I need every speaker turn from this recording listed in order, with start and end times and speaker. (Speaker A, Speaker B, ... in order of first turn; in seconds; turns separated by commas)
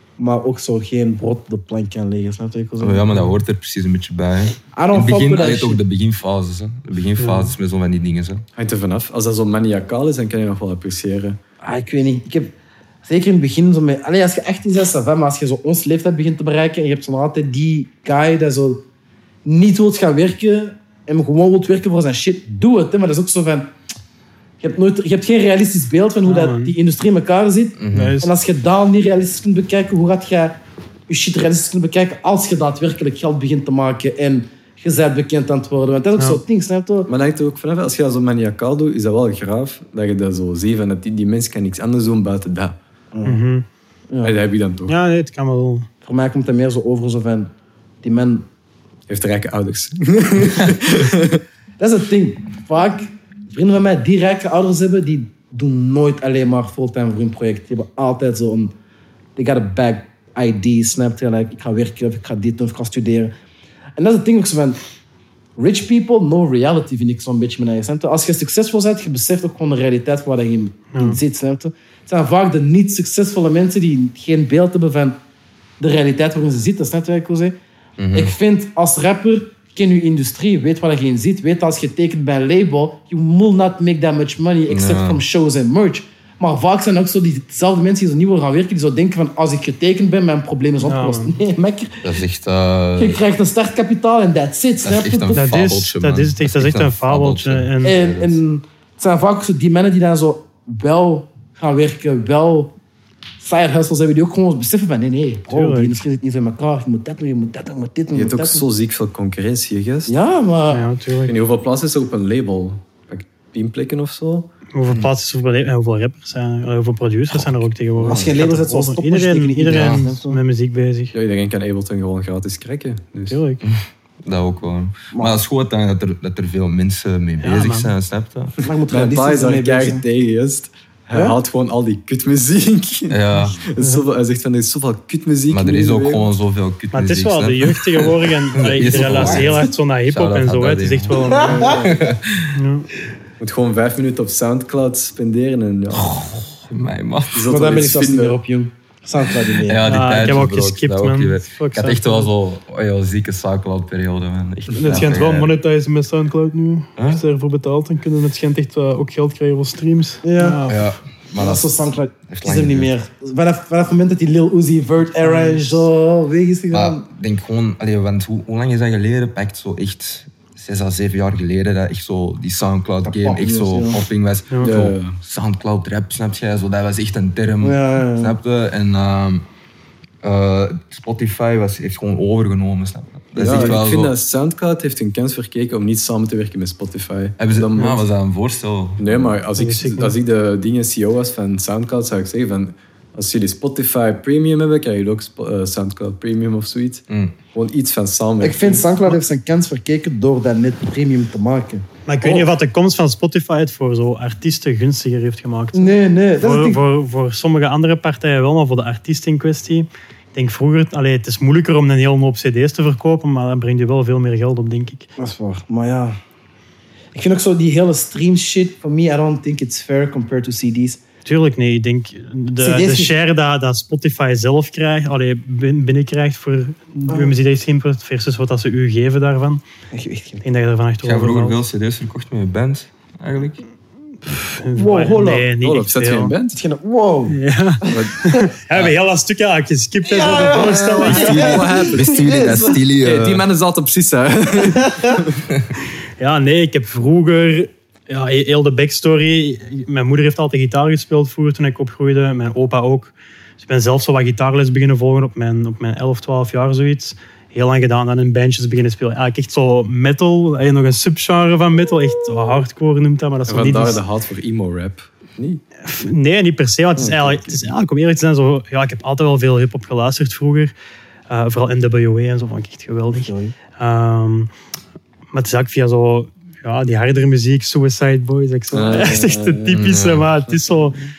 Speaker A: 0.2-3.1, Speaker B: 2.8-8.4, Speaker A: 4.7-5.8, Speaker C: 7.2-7.5, Speaker D: 8.6-11.4, Speaker A: 11.6-18.8, Speaker A: 19.4-23.7, Speaker A: 24.6-37.1, Speaker C: 26.2-26.7, Speaker B: 27.8-28.2, Speaker C: 27.9-28.3, Speaker D: 37.1-42.8, Speaker A: 43.1-43.4, Speaker C: 43.2-43.6, Speaker A: 44.1-44.4, Speaker D: 44.2-44.9, Speaker C: 44.9-45.9, Speaker A: 46.0-47.5, Speaker A: 48.0-48.5, Speaker D: 49.1-51.4, Speaker A: 51.8-58.7, Speaker A: 59.4-63.3, Speaker A: 64.0-64.8, Speaker A: 65.6-75.2, Speaker C: 70.9-71.2, Speaker A: 75.8-77.6, Speaker B: 78.0-78.3, Speaker A: 78.1-92.1, Speaker B: 84.7-85.2, Speaker C: 90.8-91.3, Speaker B: 92.0-93.2, Speaker A: 93.0-95.5, Speaker B: 94.8-98.4, Speaker C: 95.3-98.0, Speaker A: 97.8-102.7, Speaker A: 103.4-108.6, Speaker C: 105.5-106.0, Speaker D: 108.1-110.1, Speaker A: 110.1-110.8, Speaker C: 110.7-111.3, Speaker D: 111.2-114.5, Speaker C: 114.7-121.1, Speaker B: 117.3-117.6, Speaker D: 118.0-118.3, Speaker A: 118.0-120.4, Speaker B: 119.7-120.0, Speaker D: 121.1-123.4, Speaker C: 123.3-123.6, Speaker B: 123.6-128.5, Speaker C: 127.4-127.9, Speaker A: 128.6-130.0, Speaker D: 128.9-136.3, Speaker A: 131.1-131.4, Speaker B: 133.1-133.6, Speaker B: 135.5-142.6, Speaker C: 136.9-141.8, Speaker A: 138.9-139.6, Speaker A: 141.2-141.9, Speaker D: 141.4-142.0, Speaker C: 142.5-142.9, Speaker D: 143.4-146.2, Speaker B: 145.9-147.5, Speaker D: 147.3-148.4, Speaker A: 147.4-149.9, Speaker B: 149.4-155.5, Speaker C: 149.8-152.3, Speaker C: 154.7-160.8, Speaker B: 157.0-157.2, Speaker A: 160.2-160.7, Speaker B: 160.6-161.7, Speaker A: 161.3-167.0, Speaker B: 162.3-162.9, Speaker C: 165.2-165.9, Speaker B: 166.7-179.4, Speaker A: 173.0-174.0, Speaker D: 174.6-175.2, Speaker A: 177.6-178.3, Speaker B: 180.2-184.1, Speaker D: 183.3-188.0, Speaker A: 183.4-183.8, Speaker B: 187.4-189.4, Speaker D: 189.0-198.9, Speaker C: 189.6-190.2, Speaker B: 197.1-197.3, Speaker A: 198.4-202.4, Speaker C: 202.1-215.1, Speaker A: 205.7-206.8, Speaker A: 215.2-216.2, Speaker A: 217.1-221.0, Speaker C: 221.2-229.6, Speaker A: 222.6-223.2, Speaker A: 229.9-230.4, Speaker C: 230.4-231.6, Speaker B: 231.0-233.6, Speaker C: 234.2-236.3, Speaker A: 234.7-235.5, Speaker D: 235.6-236.6, Speaker A: 236.5-238.5, Speaker C: 237.3-241.6, Speaker D: 237.9-238.2, Speaker A: 240.0-242.8, Speaker D: 240.8-242.4, Speaker B: 241.1-243.4, Speaker D: 243.0-245.4, Speaker A: 244.7-245.2, Speaker C: 246.2-264.0, Speaker D: 263.5-265.6, Speaker C: 265.8-270.7, Speaker D: 267.0-267.6, Speaker C: 271.3-274.5, Speaker A: 273.1-273.5, Speaker C: 275.3-281.0, Speaker D: 278.7-279.8, Speaker B: 279.7-280.3, Speaker D: 280.6-281.0